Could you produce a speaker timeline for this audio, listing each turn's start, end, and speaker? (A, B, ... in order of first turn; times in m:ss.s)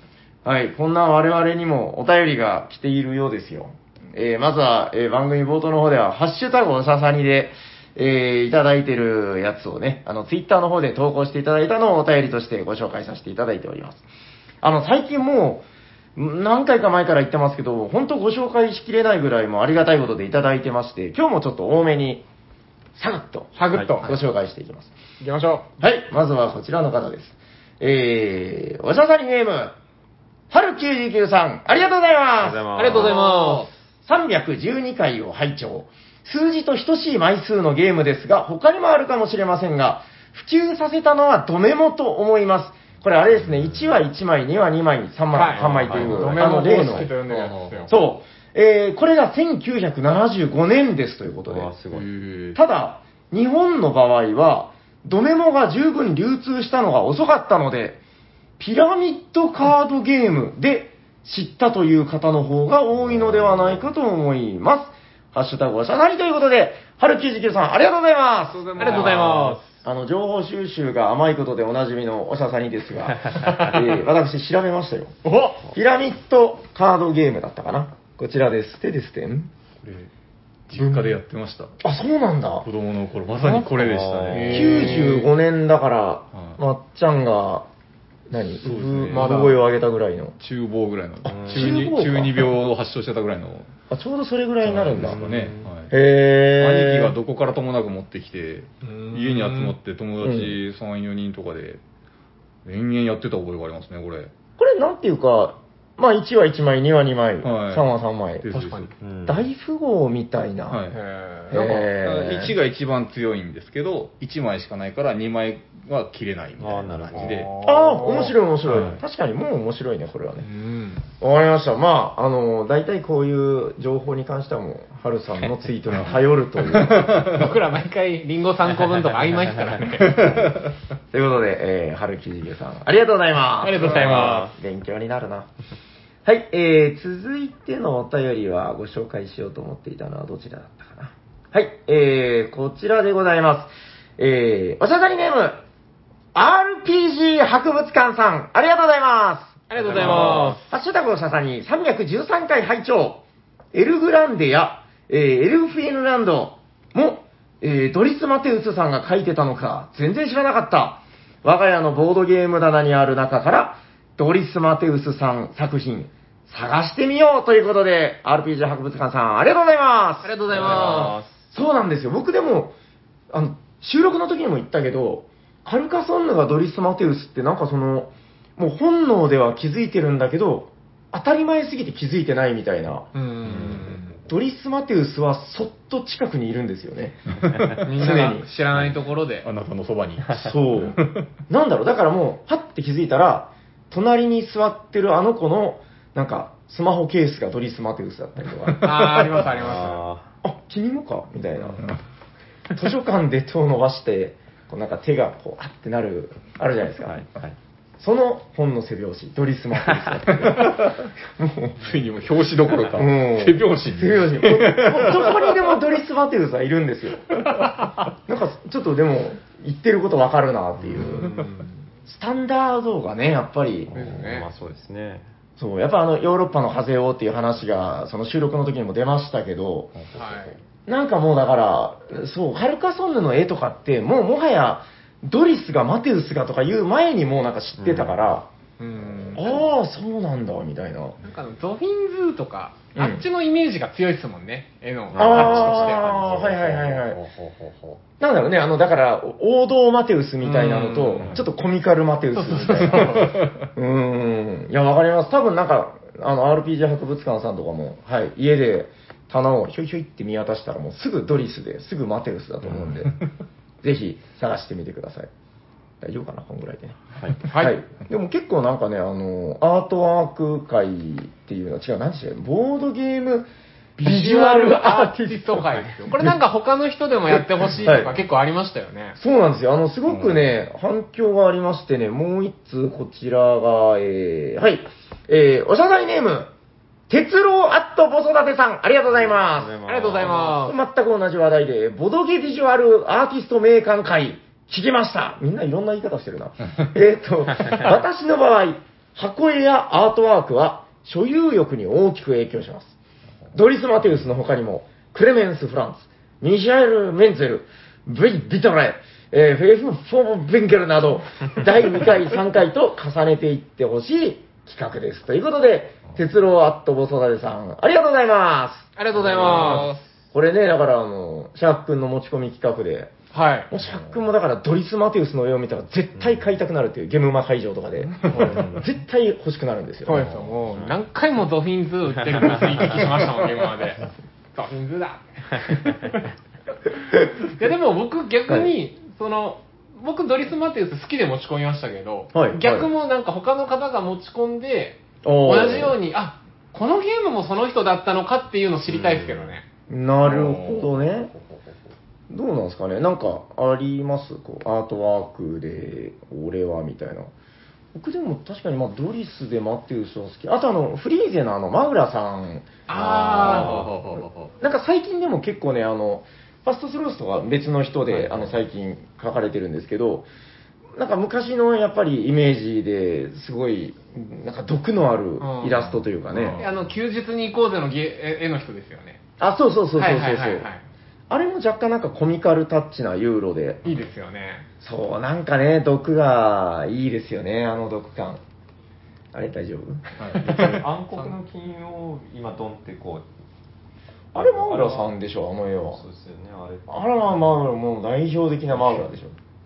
0:00.4-0:14.0 A
0:14.6-0:22.2 A
0:22.9-0:24.9 A
0:23.6-0:24.1 B
0:25.2-0:25.7 B
0:25.8-0:29.7 A
0:30.5-0:33.2 A
0:32.4-0:33.2 C
0:32.8-0:33.7 B
0:34.0-0:47.1 A
0:45.3-0:47.9 B
0:45.6-0:48.0 D
0:45.9-0:46.2 C
0:47.9-0:51.7 A
0:51.4-0:52.1 C
0:51.9-0:52.6 D
0:52.5-0:58.0 A
0:58.6-1:19.5 A
1:03.0-1:03.9 C
1:08.7-1:09.5 D
1:08.8-1:09.7 B
1:08.8-1:09.2 C
1:15.2-1:15.6 B
1:19.8-1:20.1 D
1:20.7-1:21.7 D
1:20.7-1:21.2 A
1:21.8-1:22.7 A
1:22.6-1:25.1 D
1:23.3-1:23.7 A
1:23.6-1:24.9 C
1:24.3-1:25.3 B
1:24.5-1:27.7 A
1:26.3-1:26.6 D
1:28.3-1:30.4 A
1:28.6-1:29.4 D
1:29.1-1:29.6 B
1:30.4-1:33.7 D
1:31.2-1:32.5 A
1:31.2-1:31.9 C
1:33.9-1:35.3 A
1:34.6-1:35.9 D
1:34.9-1:35.7 C
1:35.9-1:37.2 A
1:36.6-1:41.8 D
1:38.8-1:39.8 B
1:40.2-1:40.6 A
1:42.6-1:44.3 D
1:44.6-1:48.5 A
1:47.4-1:47.8 D
1:48.4-1:48.9 D
1:48.5-1:48.9 B
1:49.0-1:49.5 C
1:49.2-1:50.8 A
1:50.7-1:51.0 D
1:50.9-1:51.9 B
1:51.5-1:52.6 A
1:51.5-1:58.0 D
1:56.6-1:57.5 C
1:57.2-1:58.3 B
1:57.6-2:00.5 A
1:58.7-1:59.0 D
2:00.4-2:01.0 B
2:01.2-2:07.4 A
2:05.9-2:07.5 D
2:07.3-2:10.3 B
2:10.1-2:10.7 D
2:11.1-2:15.5 A
2:13.6-2:14.5 B
2:13.9-2:14.5 C
2:16.2-2:25.6 A
2:26.3-2:52.7 A
2:29.7-2:30.6 B
2:50.2-2:51.2 B
2:50.5-2:51.3 C
2:53.3-3:03.1 A
3:03.1-3:04.1 B
3:03.4-3:04.0 C
3:04.3-3:08.4 A
3:07.8-3:09.5 B
3:09.4-3:11.2 D
3:10.3-3:19.4 A
3:18.8-3:20.0 B
3:19.5-3:20.2 C
3:20.4-3:21.9 A
3:22.7-3:27.2 A
3:27.1-3:27.6 C
3:28.0-3:31.9 A
3:30.5-3:31.0 D
3:31.8-3:35.6 D
3:32.9-3:37.4 A
3:38.2-3:41.4 A
3:40.9-3:41.7 C
3:42.0-3:43.9 A
3:43.9-3:45.3 C
3:43.9-3:44.5 B
3:45.6-3:50.0 A
3:49.9-3:50.6 D
3:50.1-3:50.6 B
3:50.8-3:58.5 A
3:57.8-3:58.2 C
3:58.8-3:59.6 B
3:59.3-4:01.2 A
4:01.2-4:06.4 B
4:02.9-4:03.2 A
4:05.1-4:05.6 C
4:05.1-4:07.2 A
4:05.5-4:08.0 D
4:08.2-4:23.2 A
4:10.4-4:11.3 B
4:11.2-4:11.4 D
4:12.3-4:13.5 B
4:13.2-4:13.6 D
4:23.8-4:25.3 A
4:26.0-4:27.0 A
4:27.2-4:27.4 C
4:27.5-4:27.8 B
4:27.5-4:36.3 A
4:34.0-4:39.2 B
4:37.8-4:38.2 A
4:39.2-4:46.5 A
4:40.1-4:40.5 D
4:47.1-5:03.0 A
4:49.1-4:50.6 C
4:49.8-4:50.8 B
5:03.5-5:23.1 A
5:19.0-5:20.0 B
5:23.3-5:23.7 B
5:23.7-5:30.3 A
5:26.1-5:26.5 C
5:28.3-5:28.6 B
5:28.3-5:28.8 C
5:30.0-5:36.3 B
5:30.2-5:31.0 C
5:37.5-5:49.6 B
5:42.3-5:42.9 A
5:45.2-5:46.0 A
5:49.0-5:49.4 C
5:49.9-5:51.3 A
5:50.2-5:51.7 D
5:52.3-5:57.3 A
5:57.9-6:02.7 A
6:02.9-6:03.9 B
6:02.9-6:04.5 D
6:03.4-6:10.3 A
6:03.4-6:03.8 C
6:08.1-6:08.6 C
6:10.9-6:16.6 A
6:15.4-6:15.8 B
6:15.7-6:16.9 D
6:16.6-6:19.2 B
6:19.4-6:20.7 A
6:20.0-6:20.8 B
6:21.3-6:23.8 A
6:23.8-6:24.7 B
6:24.8-6:28.4 A
6:29.3-6:30.4 A
6:30.2-6:30.8 D
6:30.4-6:33.2 C
6:34.3-6:35.2 C
6:34.3-6:36.0 A
6:35.8-6:37.5 C
6:36.9-6:39.3 A